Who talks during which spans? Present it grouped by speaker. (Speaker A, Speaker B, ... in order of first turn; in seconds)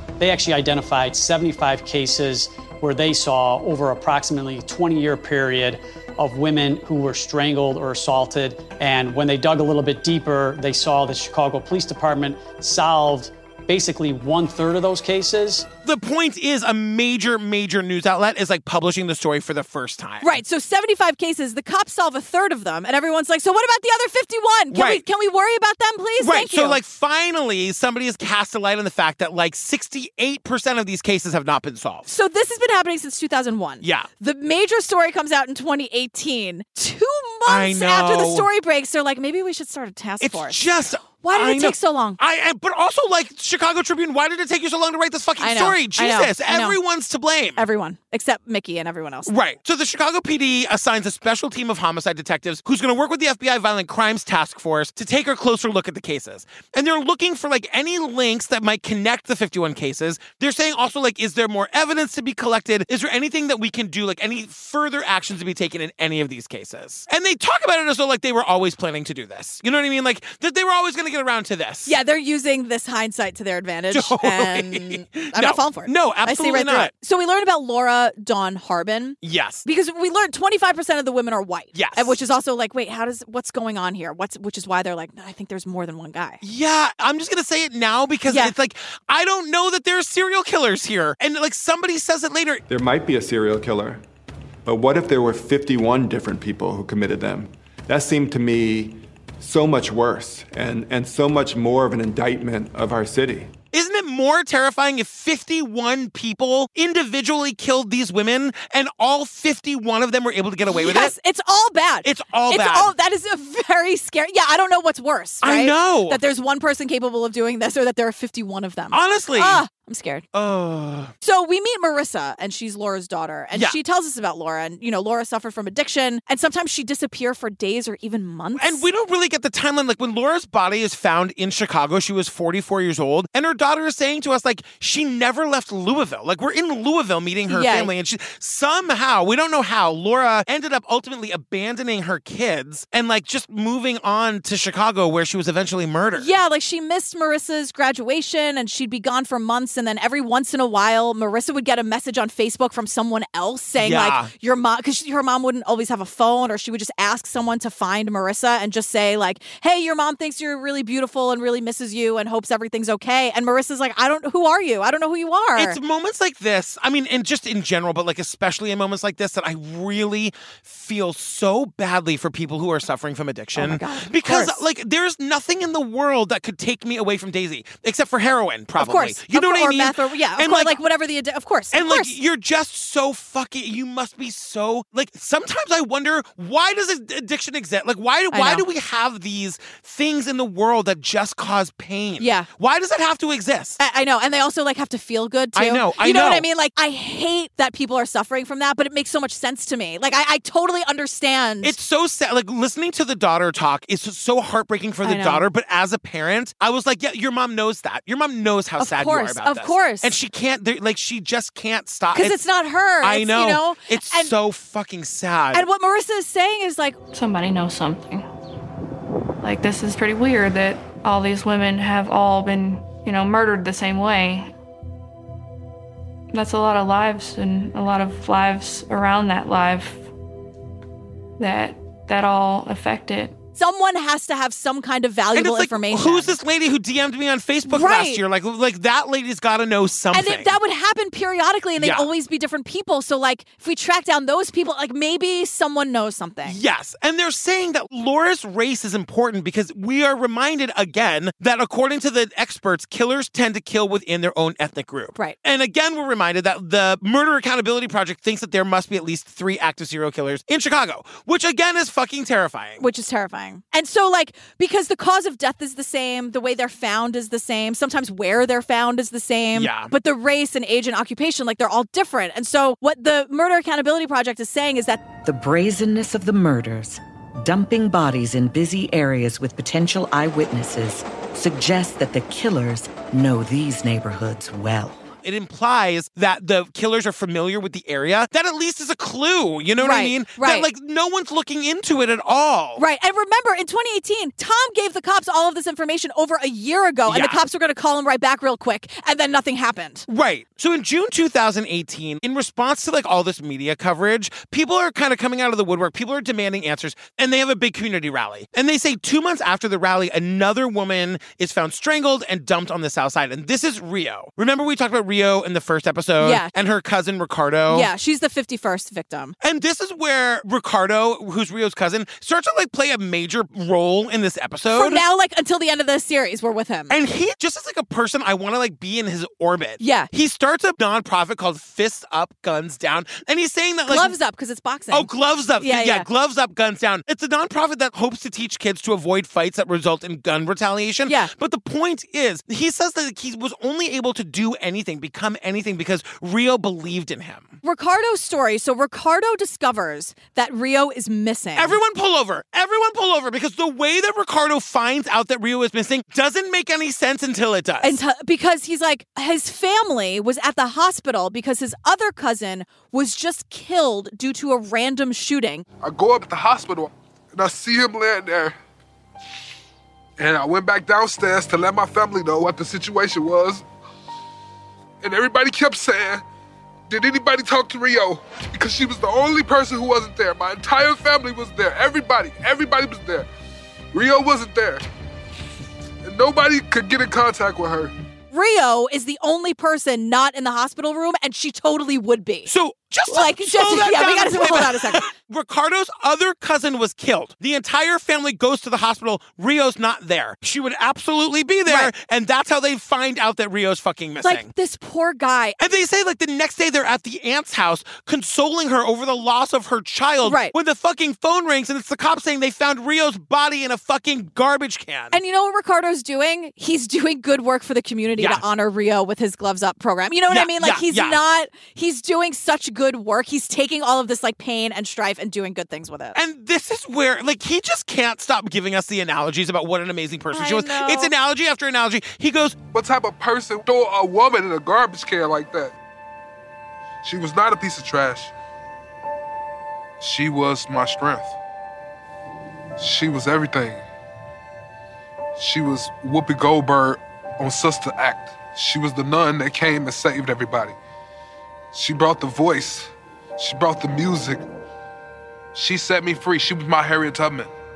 Speaker A: 0.2-15.7
Speaker B: 15.8-20.4, 24.7-25.0, 26.2-32.1, 33.8-34.1, 37.5-38.5, 40.2-47.7, 49.3-71.9, 73.9-76.9, 79.2-79.7, 81.7-82.2, 86.4-92.6, 103.7-111.1, 112.0-112.9, 115.4-116.2, 118.9-119.6, 120.3-121.1, 128.6-146.3, 153.8-154.3, 165.6-180.8, 181.7-193.8, 195.6-196.5, 201.6-212.4, 213.0-215.7, 235.3-240.6, 241.8-242.1, 246.4-262.9, 269.6-269.9, 285.2-292.8, 297.1-297.4, 300.1-317.9, 319.4-325.0, 326.9-334.2, 334.9-347.5, 351.6-358.0, 392.5-404.5, 405.6-415.1, 418.2-418.4, 420.3-421.2, 426.1-432.6
Speaker C: 20.2-26.8, 32.1-40.6, 41.2-42.2, 45.4-46.8, 47.6-49.3, 71.9-86.4, 88.3-88.5, 110.7-120.2, 121.2-128.8, 137.5-137.9, 146.2-165.8, 173.6-174.6, 178.8-182.2, 188.3-188.7, 192.2-192.5, 193.8-201.8, 205.0-205.4, 208.8-210.1, 212.1-214.3, 215.5-217.0, 233.6-236.4, 237.7-238.2, 240.1-246.6, 262.8-275.0, 289.8-290.7, 292.8-300.1, 316.2-316.5, 317.7-319.4, 324.7-327.0, 329.8-330.1, 333.9-336.1, 341.1-341.3, 347.6-351.8, 357.8-365.6, 388.3-392.5, 393.1-395.1, 404.2-405.6, 410.2-410.5, 415.1-426.2, 430.3-431.1
Speaker D: 92.7-94.0, 94.7-103.5
Speaker E: 217.1-218.3, 219.4-224.5, 226.3-230.1, 231.4-233.3
Speaker F: 275.2-285.1
Speaker G: 365.8-368.6, 370.2-373.6, 375.0-376.2, 376.9-383.3, 383.9-384.8, 386.1-387.9, 432.7-435.7, 437.0-438.3, 440.0-441.4, 442.8-443.8, 445.4-450.8, 451.7-454.4, 455.6-457.5